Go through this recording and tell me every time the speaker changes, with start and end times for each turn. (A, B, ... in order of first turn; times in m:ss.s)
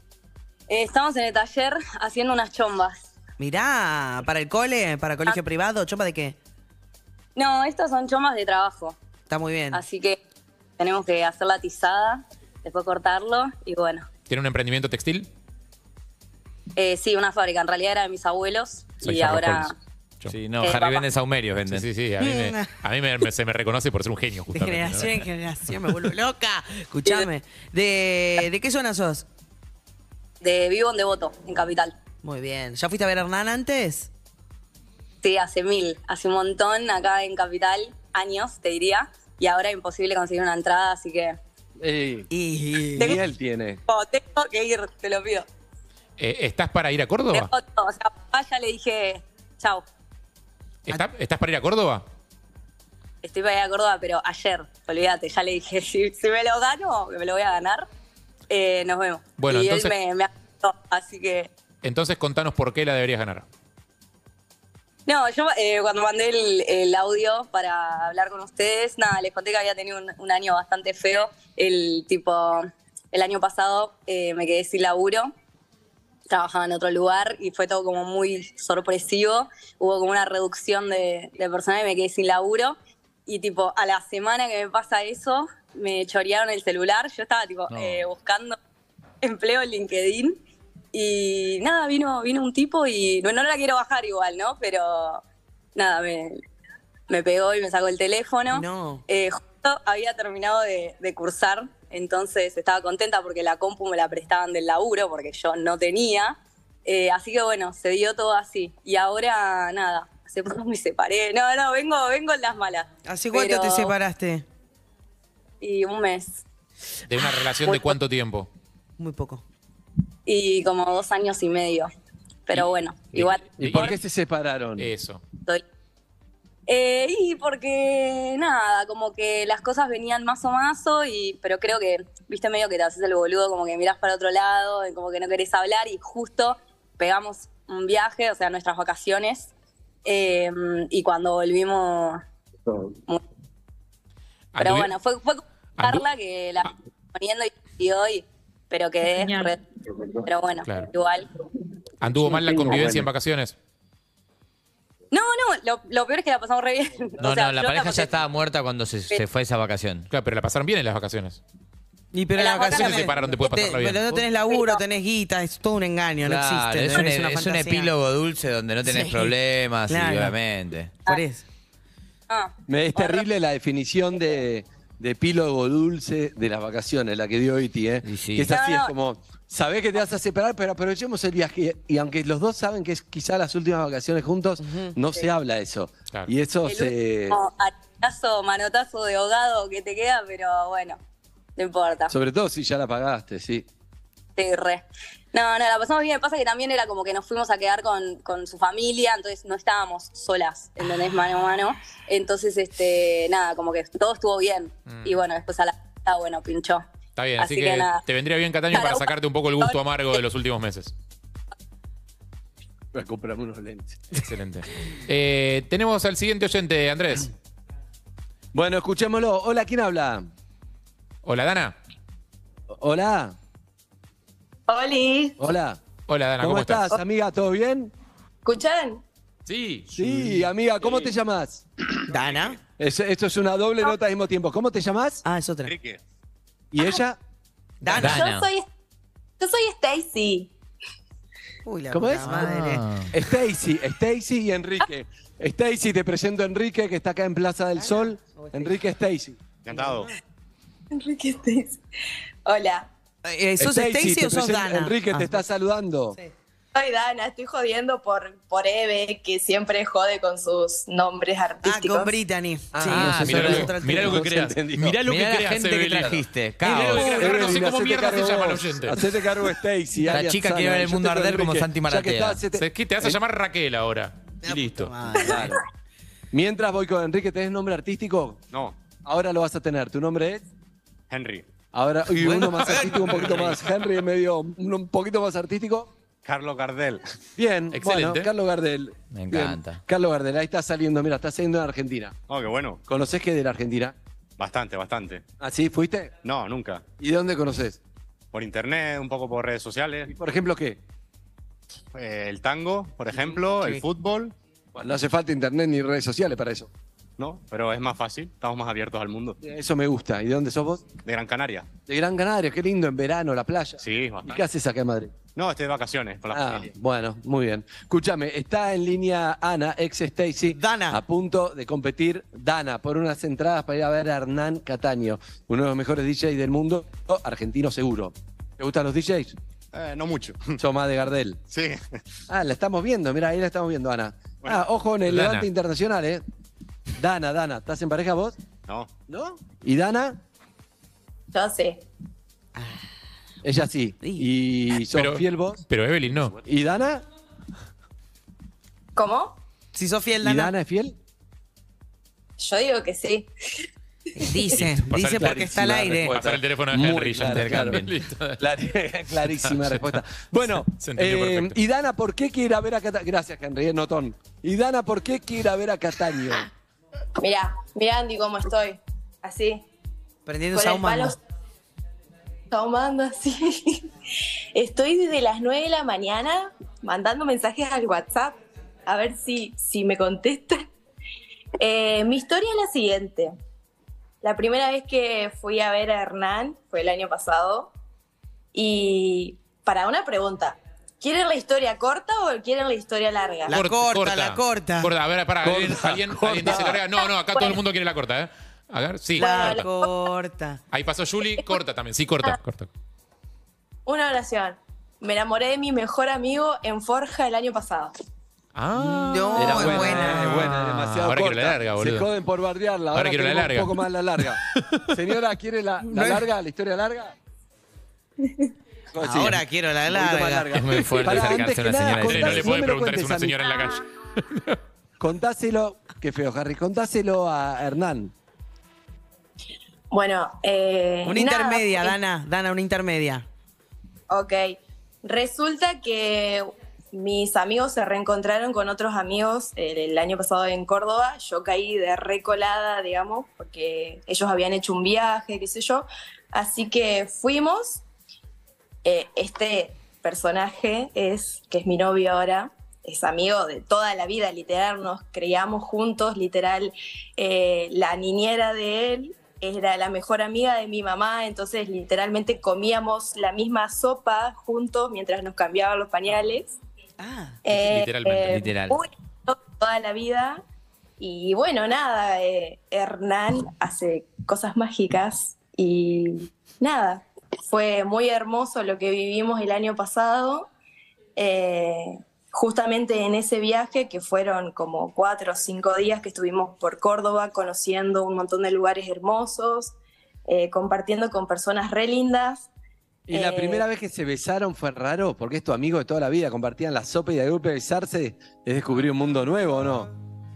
0:00.7-0:03.1 A
0:03.4-0:06.4 B
0:07.4-0:09.0 A
0:09.3-0:09.8 B
0:09.7-0:10.2 A
0:10.8-0:14.1 A
0:14.3-0:15.3 C
0:16.8-0:19.7 A
0:19.0-0:20.4 C
0:20.3-0:21.9 D
0:20.6-0:21.0 A
0:21.7-0:25.3 C
0:22.2-0:22.8 B
0:24.5-0:29.2 B
0:30.4-0:31.9 A
0:32.2-0:34.1 B
0:35.2-0:41.4 A
0:41.8-0:42.3 E
0:42.3-0:43.2 B
0:43.0-0:43.8 E
0:43.9-0:45.4 A
0:46.2-0:47.5 C
0:47.3-0:49.8 A
0:50.8-0:52.0 C
0:53.2-0:57.8 A
0:58.5-1:01.5 A
0:59.4-0:59.9 C
1:01.8-1:03.4 C
1:05.0-1:15.3 A
1:16.3-1:28.6 A
1:27.7-1:28.0 D
1:29.2-1:30.4 A
1:30.9-1:35.2 A
1:35.8-1:36.4 A
1:37.1-1:53.9 A
1:38.5-1:39.0 B
1:53.0-1:54.4 B
1:55.6-1:56.4 A
1:57.0-1:58.5 C
1:59.0-1:59.4 B
2:00.2-2:01.9 A
2:02.5-2:03.9 A
2:03.1-2:03.9 C
2:03.6-2:04.9 E
2:04.8-2:05.2 C
2:06.7-2:19.5 A
2:20.0-2:22.2 A
2:24.5-2:24.9 C
2:24.6-2:29.6 A
2:25.8-2:26.0 C
2:30.1-2:31.3 A
2:32.0-2:33.5 C
2:35.1-2:38.2 A
2:37.2-2:40.1 D
2:40.1-2:41.4 C
2:42.1-2:47.9 B
2:42.4-2:43.1 A
2:42.6-2:44.1 C
2:44.5-2:44.8 A
2:46.2-2:51.0 D
2:48.8-2:49.4 B
2:49.9-2:50.3 B
2:51.0-2:51.4 B
2:52.3-2:53.2 A
2:52.7-3:07.4 E
2:58.0-2:58.5 D
2:58.5-2:58.9 A
3:04.6-3:04.9 B
3:06.6-3:11.0 A
3:11.6-3:12.1 A
3:12.1-3:13.6 E
3:14.4-3:26.8 A
3:24.9-3:25.1 C
3:27.2-3:30.9 C
3:27.4-3:28.0 A
3:28.7-3:30.2 A
3:32.9-3:34.0 E
3:34.2-3:37.3 C
3:38.5-3:40.2 E
3:41.2-3:41.7 C
3:42.7-3:43.3 E
3:44.7-3:45.4 F
3:45.4-3:45.8 E
3:46.1-3:47.0 C
3:46.4-3:47.9 E
3:48.4-3:49.0 F
3:49.5-3:49.9 C
3:49.9-3:51.6 E
3:52.1-3:52.6 B
3:52.8-3:55.2 E
3:55.2-3:55.7 B
3:55.6-3:56.0 G
3:56.7-3:57.2 E
3:57.8-3:58.3 B
3:57.9-3:58.6 F
3:58.0-3:58.5 D
3:59.4-4:00.5 F
4:01.6-4:02.8 B
4:01.9-4:02.6 E
4:02.3-4:03.1 D
4:03.1-4:09.4 E
4:07.8-4:08.7 B
4:09.6-4:10.1 G
4:09.7-4:10.1 B
4:10.9-4:11.8 F
4:12.4-4:12.9 F
4:13.2-4:15.4 B
4:13.6-4:16.2 E
4:16.7-4:22.2 F
4:21.6-4:24.3 B
4:22.7-4:25.0 E
4:22.9-4:23.4 D
4:23.0-4:29.0 C
4:24.8-4:27.2 D
4:26.7-4:33.2 E
4:30.1-4:32.4 D
4:32.5-4:35.0 C
4:34.4-4:35.6 B
4:35.2-4:35.6 E
4:36.3-4:38.4 E
4:39.0-4:40.4 E
4:41.1-4:41.5 G
4:41.7-4:45.9 E
4:42.2-4:42.5 D
4:43.2-4:43.6 G
4:46.2-4:47.0 G
4:47.4-4:52.1 E
4:47.7-4:48.3 C
4:49.1-4:49.8 D
4:52.3-4:52.8 G
4:52.9-4:53.9 E
4:54.4-4:55.2 G
4:55.4-4:56.1 E
4:56.2-4:56.8 G
4:57.0-4:57.8 E
4:58.3-5:00.1 G
5:00.1-5:00.8 E
5:01.9-5:04.3 G
5:04.7-5:06.7 E
5:07.2-5:09.4 G
5:09.4-5:10.9 E
5:11.0-5:11.7 G
5:11.8-5:15.1 E
5:13.8-5:14.4 G
5:15.4-5:16.7 G
5:16.3-5:29.4 E
5:20.5-5:21.0 B
5:29.7-5:30.6 G
5:30.6-5:31.4 E
5:31.5-5:32.0 G
5:32.3-5:36.2 E
5:35.0-5:35.5 C
5:37.0-5:38.4 E
5:38.7-5:38.9 G
5:39.1-5:40.2 E
5:41.3-5:41.8 F
5:42.6-5:42.8 B
5:43.4-5:45.6 E
5:44.0-5:44.3 B
5:44.9-5:46.3 C
5:46.4-5:47.0 E
5:49.0-5:49.4 F
5:49.7-5:50.5 B
5:50.2-5:50.9 E
5:52.4-5:53.6 F
5:54.2-5:56.2 B
5:54.6-5:58.4 C
5:55.2-5:57.9 E
5:57.2-5:57.9 D
5:58.4-6:06.5 E
5:59.4-5:59.8 C
6:00.7-6:01.6 C
6:07.2-6:09.6 F
6:10.2-6:11.2 B
6:10.5-6:11.2 F
6:12.5-6:13.9 F
6:14.5-6:20.6 F
6:21.6-6:23.3 F
6:24.2-6:27.7 F
6:28.5-6:33.6 F
6:33.5-6:34.9 B
6:33.5-6:39.6 C
6:35.4-6:36.8 E
6:37.3-6:37.6 F
6:39.1-6:40.6 B
6:39.2-6:39.9 F
6:40.7-6:42.7 C
6:43.8-6:47.9 F
6:48.5-6:52.0 C
6:48.8-6:50.5 B
6:49.4-6:57.1 E
6:52.9-6:53.7 C
6:54.5-6:54.9 C
6:55.8-6:56.3 B
6:58.9-7:03.4 E
6:59.0-7:00.6 B
7:00.6-7:02.4 D
7:00.7-7:04.6 C
7:05.0-7:08.1 E
7:09.9-7:12.0 F
7:11.0-7:13.2 B
7:14.1-7:27.8 F
7:28.8-7:46.5 F
7:47.0-7:47.4 B
7:47.4-7:50.4 F
7:47.5-7:48.4 C
7:48.3-7:48.8 D
7:51.0-8:00.5 F
8:01.2-8:09.7 F
8:10.3-8:12.5 F
8:13.1-8:19.9 E
8:13.1-8:13.6 F